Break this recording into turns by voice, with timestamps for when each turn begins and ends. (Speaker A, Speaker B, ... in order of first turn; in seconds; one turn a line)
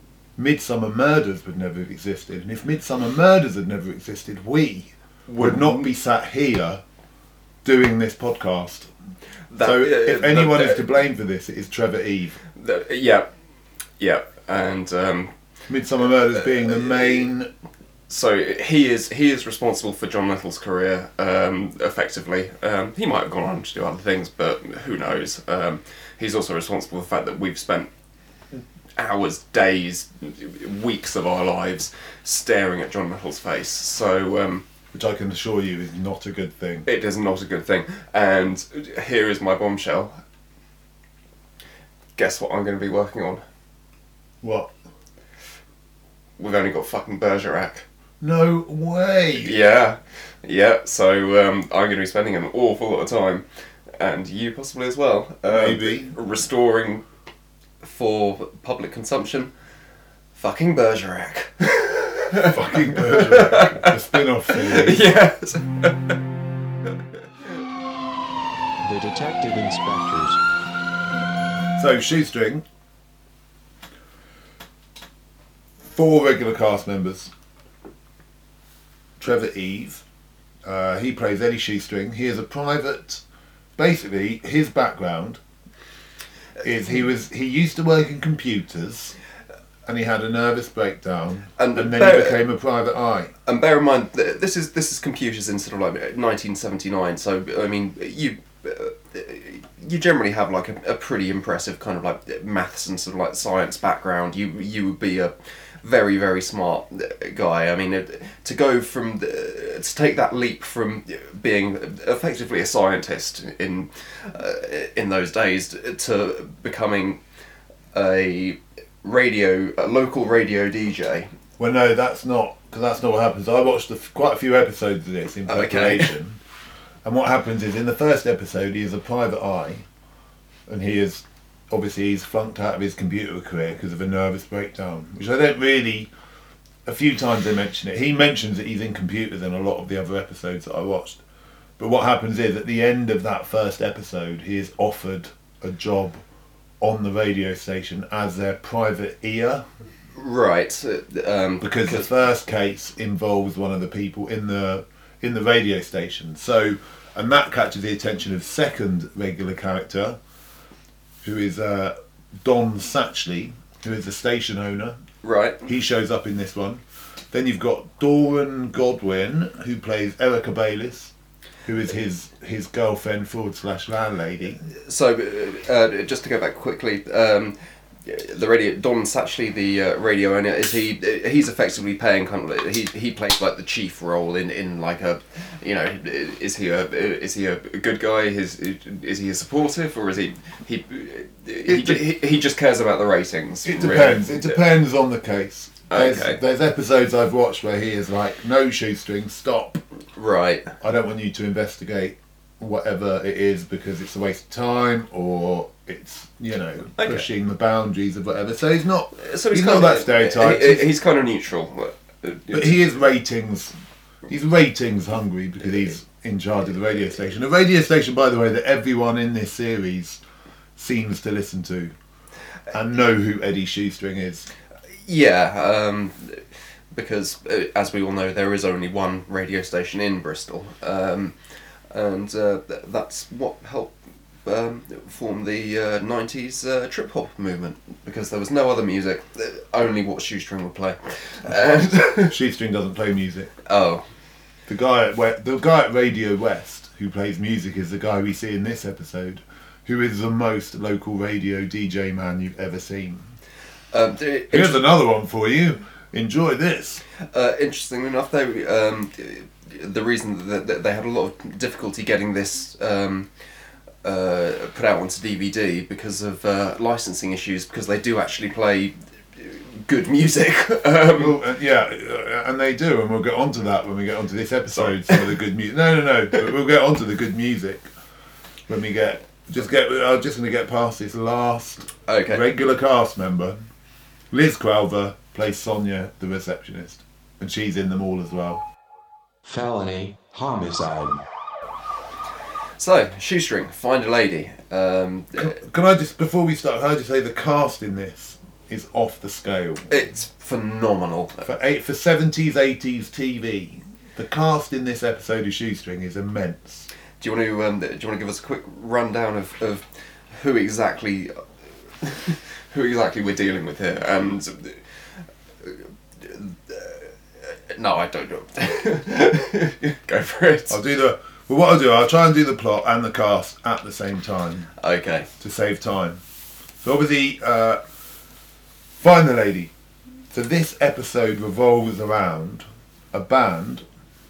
Speaker A: 0.4-6.8
Speaker B: 5.3-5.9
Speaker A: 7.6-8.9
Speaker B: 9.5-10.8
Speaker A: 9.6-12.4
Speaker B: 12.5-13.2
Speaker B: 14.0-15.3
Speaker A: 15.7-17.5
Speaker B: 16.4-17.2
Speaker B: 18.1-27.9
Speaker B: 28.5-34.6
Speaker A: 34.9-36.9
Speaker B: 36.9-40.2
Speaker B: 42.1-43.4
Speaker A: 44.4-44.7
Speaker B: 46.4-47.8
Speaker A: 48.2-49.6
Speaker B: 49.3-53.4
Speaker B: 54.0-57.0
Speaker A: 55.5-56.1
Speaker B: 57.8-59.5
Speaker B: 60.3-66.2
Speaker A: 62.4-65.0
Speaker C: 68.8-70.4
Speaker A: 71.8-72.6
Speaker A: 75.8-77.3
Speaker A: 79.2-80.0
Speaker A: 80.6-83.2
Speaker A: 83.8-85.4
Speaker A: 86.6-89.2
Speaker A: 89.8-93.3
Speaker B: 91.6-92.4
Speaker B: 93.5-117.2
Speaker B: 117.9-121.3
Speaker A: 121.6-126.4
Speaker B: 125.5-126.1
Speaker A: 127.0-129.8
Speaker A: 130.7-136.1
Speaker A: 136.8-141.2
Speaker A: 141.8-146.2
Speaker A: 146.8-149.6
Speaker B: 150.1-152.1
Speaker A: 151.6-160.2
Speaker A: 161.2-165.0
Speaker B: 165.2-165.6
Speaker A: 165.6-171.1
Speaker A: 171.7-174.6
Speaker B: 174.7-194.6
Speaker A: 191.6-192.0
Speaker A: 193.7-199.8
Speaker B: 195.9-196.4
Speaker B: 200.2-200.7
Speaker A: 200.8-210.9
Speaker B: 207.0-207.3
Speaker B: 209.2-213.0
Speaker A: 212.5-213.7
Speaker A: 214.3-220.2
Speaker A: 220.8-221.9
Speaker A: 222.7-224.5
Speaker B: 225.0-231.3
Speaker B: 231.9-242.3
Speaker A: 242.3-243.5
Speaker B: 243.7-244.0
Speaker A: 244.7-253.3
Speaker B: 253.9-254.9
Speaker A: 254.5-257.0
Speaker B: 257.3-263.3
Speaker B: 264.0-271.4
Speaker A: 271.1-277.9
Speaker B: 274.7-275.3
Speaker A: 278.7-283.7
Speaker B: 282.1-282.4
Speaker A: 284.3-288.6
Speaker C: 289.4-291.2
Speaker B: 292.8-295.6
Speaker A: 295.4-299.9
Speaker B: 299.9-301.5
Speaker A: 301.4-306.9
Speaker B: 307.2-311.3
Speaker B: 312.0-314.8
Speaker B: 315.6-320.8
Speaker A: 320.7-324.7
Speaker B: 324.8-325.3
Speaker A: 325.4-326.2
Speaker A: 326.8-327.8
Speaker A: 329.0-329.7
Speaker A: 330.3-333.8